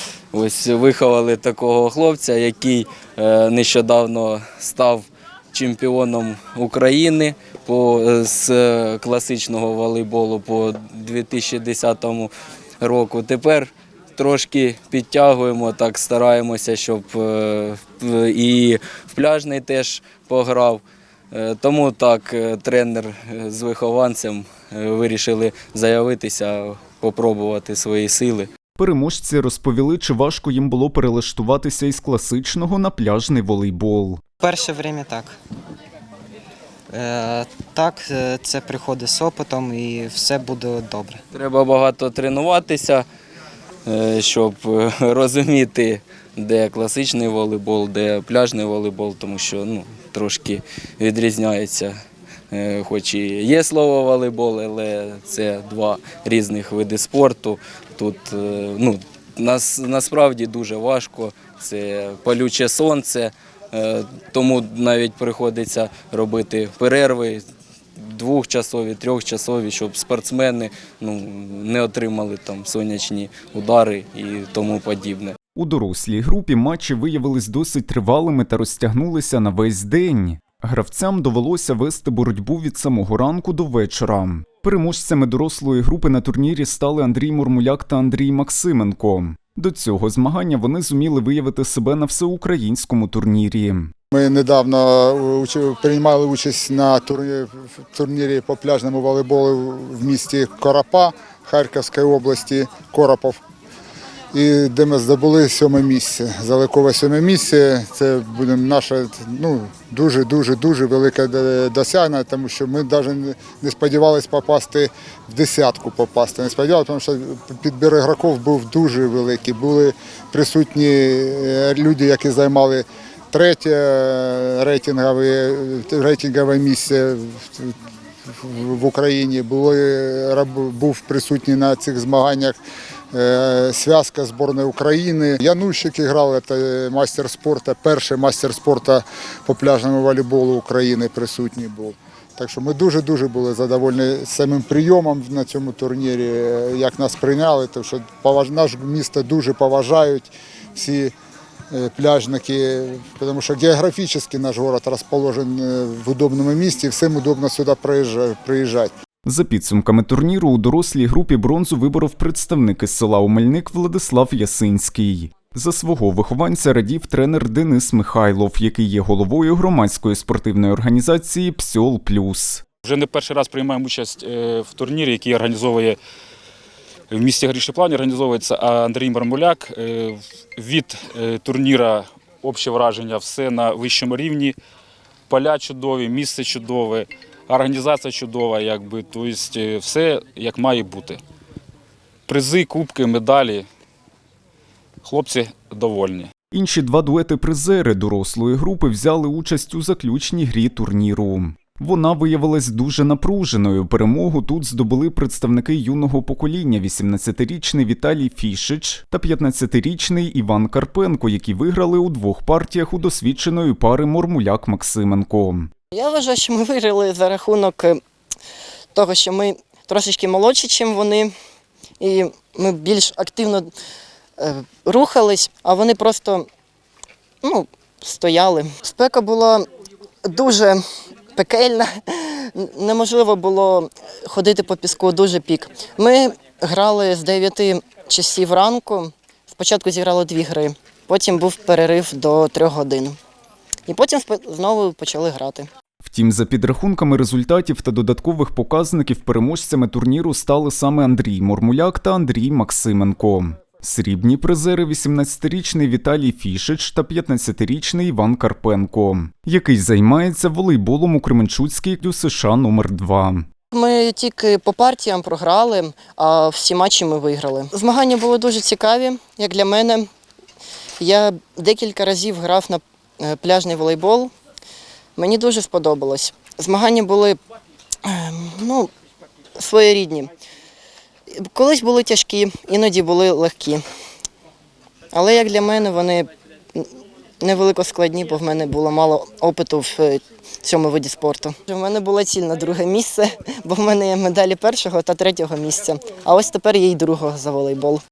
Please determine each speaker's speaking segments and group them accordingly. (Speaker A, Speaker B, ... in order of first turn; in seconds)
Speaker A: 0.3-28.5, 41.3-43.0, 43.9-52.0, 52.5-67.4, 68.0-75.3
Speaker B: 28.8-34.2, 75.5-93.9, 159.2-172.6, 196.5-215.7, 246.0-263.5
Speaker C: 34.4-35.4, 36.9-41.2
Speaker D: 94.1-103.4, 104.3-127.8, 128.3-132.6, 133.1-151.1, 151.7-158.9
Speaker E: 172.8-176.0, 177.1-184.5, 185.3-191.2, 192.3-193.7, 195.0-196.3
Speaker F: 215.9-218.0, 218.9-221.3, 222.0-223.7, 224.4-226.5, 227.4-229.7, 230.2-230.8, 231.3-243.2, 243.9-245.7, 263.7-270.1, 271.0-274.3, 275.2-277.4, 278.0-278.9, 279.6-280.3, 281.3-283.8, 285.1-286.9, 287.4-298.0